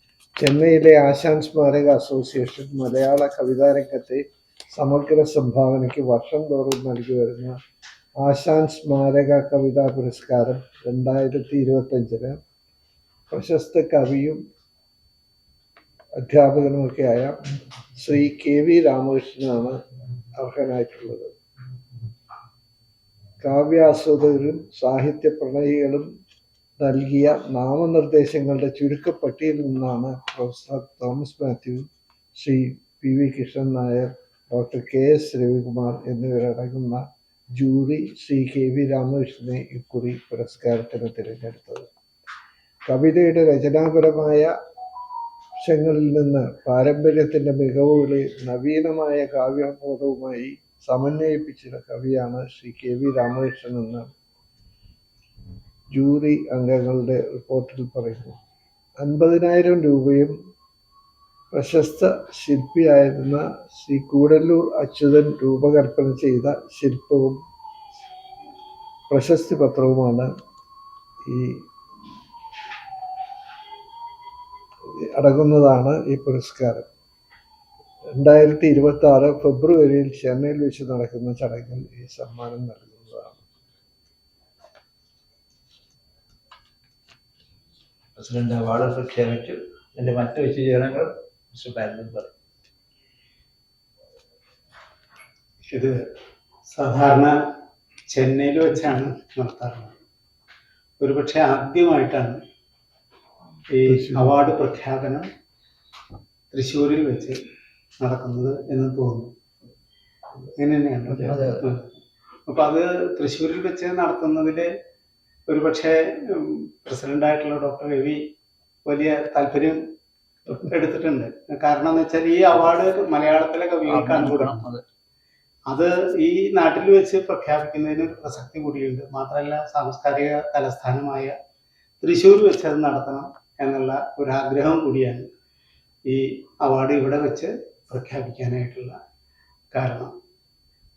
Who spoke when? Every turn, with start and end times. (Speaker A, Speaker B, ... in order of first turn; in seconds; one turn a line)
Speaker A: 0.4-7.6
Speaker A: 8.2-12.4
Speaker A: 13.3-14.4
Speaker A: 16.2-17.4
Speaker A: 17.9-19.8
Speaker A: 20.4-21.4
Speaker A: 23.4-26.1
Speaker A: 26.8-41.9
Speaker A: 42.9-44.5
Speaker A: 45.6-54.1
Speaker A: 55.9-58.4
Speaker A: 59.0-60.3
Speaker A: 61.5-67.4
Speaker A: 69.1-70.3
Speaker A: 71.3-71.6
Speaker A: 75.0-76.9
Speaker A: 78.2-83.5
Speaker B: 88.2-92.3
Speaker C: 95.7-96.0
Speaker C: 96.7-97.4
Speaker C: 98.1-100.0
Speaker C: 101.0-102.4
Speaker C: 103.7-105.3
Speaker A: 103.8-104.4
Speaker C: 106.5-107.4
Speaker C: 108.0-109.3
Speaker C: 110.6-111.9
Speaker B: 111.2-111.7
Speaker C: 112.5-114.7
Speaker C: 115.5-118.2
Speaker C: 118.9-119.8
Speaker C: 120.5-124.7
Speaker B: 123.9-124.8
Speaker C: 125.7-131.3
Speaker C: 132.0-135.3
Speaker C: 136.1-139.0
Speaker C: 139.7-140.1